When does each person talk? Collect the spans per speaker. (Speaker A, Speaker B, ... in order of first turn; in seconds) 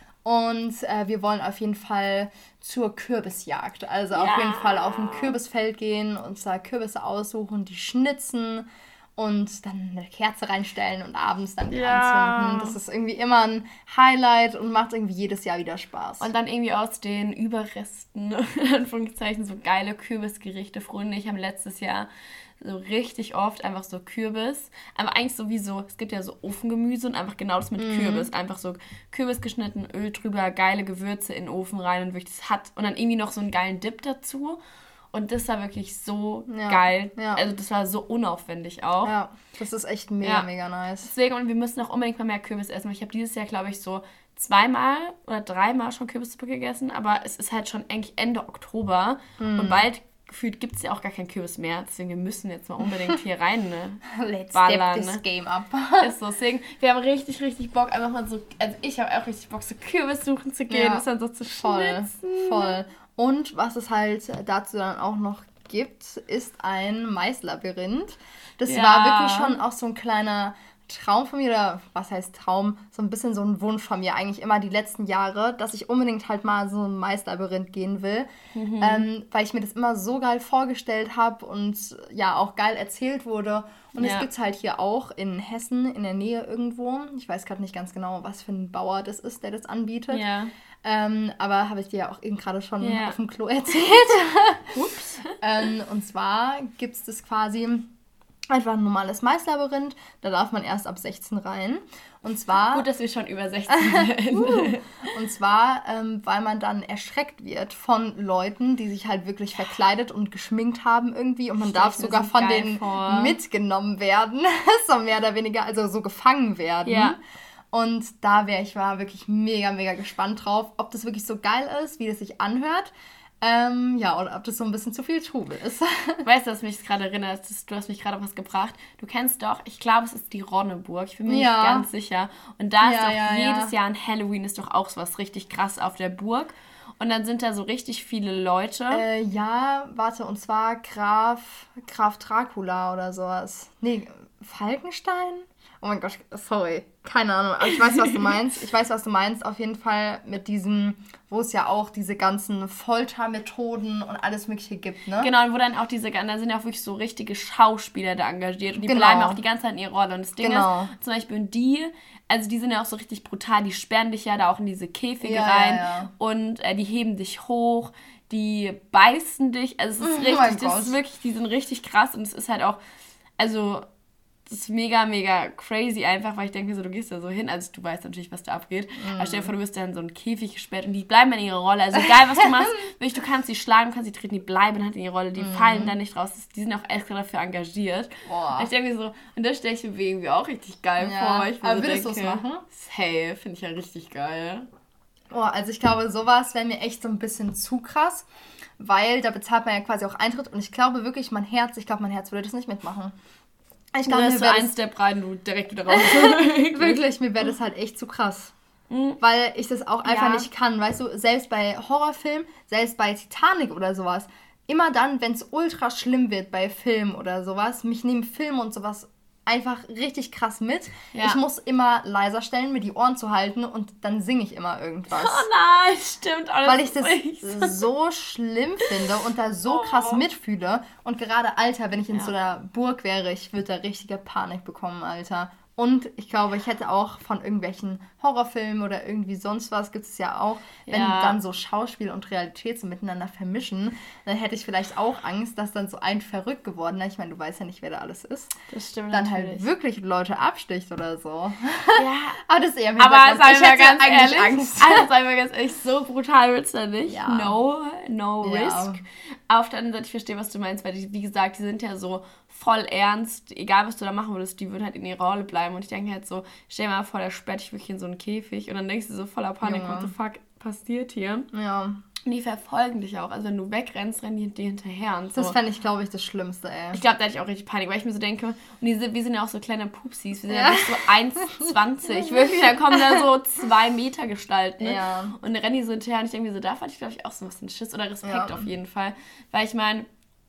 Speaker A: 0.2-8.7, 9.2-16.3, 27.8-28.3, 36.5-37.4, 39.0-41.1, 49.4-49.9, 54.0-56.1, 60.7-78.3, 78.8-90.2, 90.8-94.7, 95.4-97.9, 98.5-102.8, 103.7-117.2, 117.7-126.2, 131.2-131.9, 132.8-133.7, 138.9-155.3, 158.8-159.4, 160.4-160.9, 165.2-166.1, 170.0-171.0, 179.0-179.5, 185.4-185.9, 188.2-188.7, 191.0-192.6, 195.3-198.2, 198.8-203.1, 203.9-204.7, 205.9-208.5, 209.2-225.4, 226.6-248.5, 249.1-255.1, 257.1-257.6, 258.4-259.0, 269.6-270.1, 271.5-272.0, 275.3-277.0, 280.5-283.2, 284.8-285.3, 288.2-288.7
Speaker B: 4.1-5.4, 11.7-12.8, 16.2-22.1, 22.6-34.6, 35.1-39.1, 40.2-40.5, 41.0-54.0, 54.5-55.2, 56.0-62.8, 68.7-69.6, 78.5-79.1, 84.0-84.3, 90.1-90.5, 92.8-93.2, 94.7-95.3, 102.7-104.9, 111.6-113.4, 116.8-117.2, 126.2-139.0, 155.2-172.8, 173.4-173.8, 174.4-194.7, 204.1-207.0, 208.9-209.2, 210.0-210.5, 221.1-221.4, 225.1-227.8, 229.7-230.2, 240.9-241.4, 248.7-249.7, 251.9-252.4, 253.0-271.5, 272.2-275.6, 276.9-290.1